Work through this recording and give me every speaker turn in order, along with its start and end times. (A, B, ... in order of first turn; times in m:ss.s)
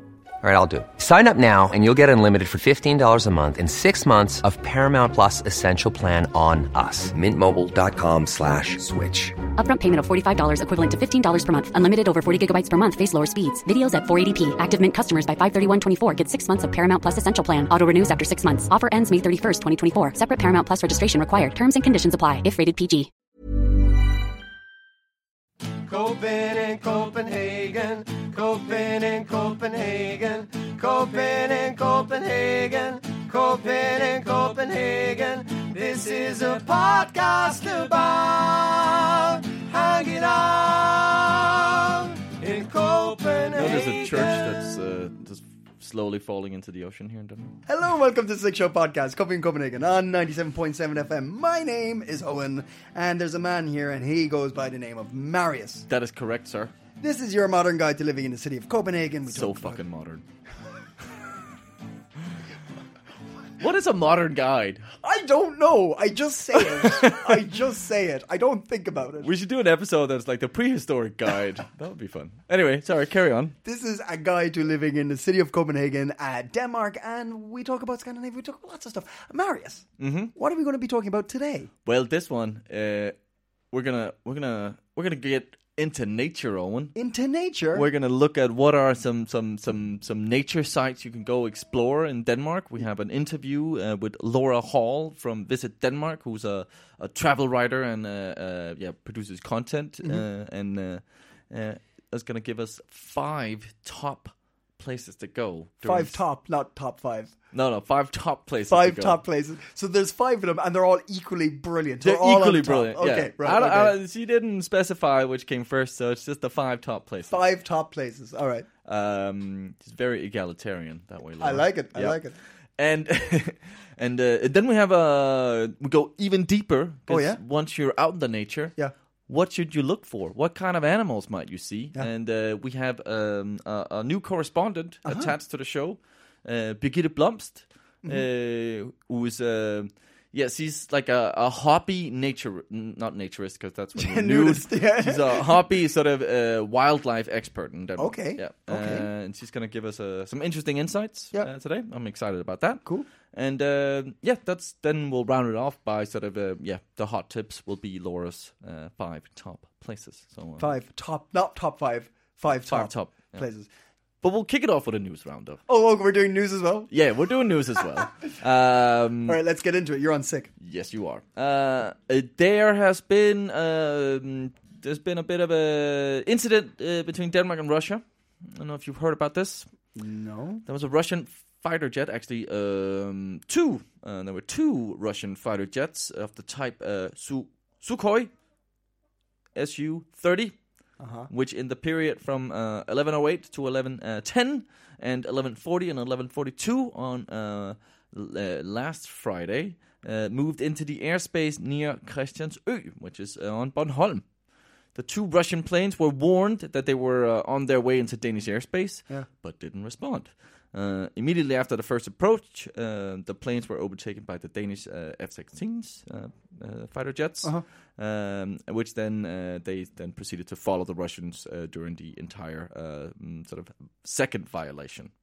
0:00.4-0:09.4 A
0:09.6-0:23.1 B
0:25.8-0:44.6 C
0:43.5-0:47.6 D
0:47.6-0:55.9 E
0:55.9-0:56.7 D
0:57.0-0:59.8 E
0:59.3-1:00.2 D
1:03.6-1:04.8 D
1:04.9-1:09.3 E
1:06.7-1:07.3 D
1:09.2-1:13.5 D
1:13.6-1:21.7 E
1:20.0-1:20.3 D
1:21.8-1:23.1 D
1:23.7-1:26.9 D
1:26.9-1:27.9 E
1:27.7-1:46.2 D
1:45.8-1:47.3 E
1:47.5-1:49.2 D
1:48.7-1:54.0 E
1:52.0-1:57.4 D
1:57.3-1:58.7 E
1:58.8-2:02.2 D
2:01.4-2:02.4 E
2:02.8-2:08.8 D
2:07.1-2:07.4 E
2:09.3-2:40.7 D
2:15.0-2:15.3 E
2:23.9-2:25.6 E
2:28.0-2:29.1 E
2:40.6-2:43.7 E
2:42.5-2:43.4 D
2:44.2-2:45.6 D
2:45.7-2:46.9 E
2:46.9-2:49.4 D
2:47.8-2:48.1 E
2:49.2-2:50.5 E
2:50.6-2:59.7 D
2:59.9-3:00.6 E
3:00.7-3:08.3 D
3:09.5-3:10.5 D
3:11.0-3:11.3 E
3:11.3-3:24.2 D
3:24.9-3:45.1 D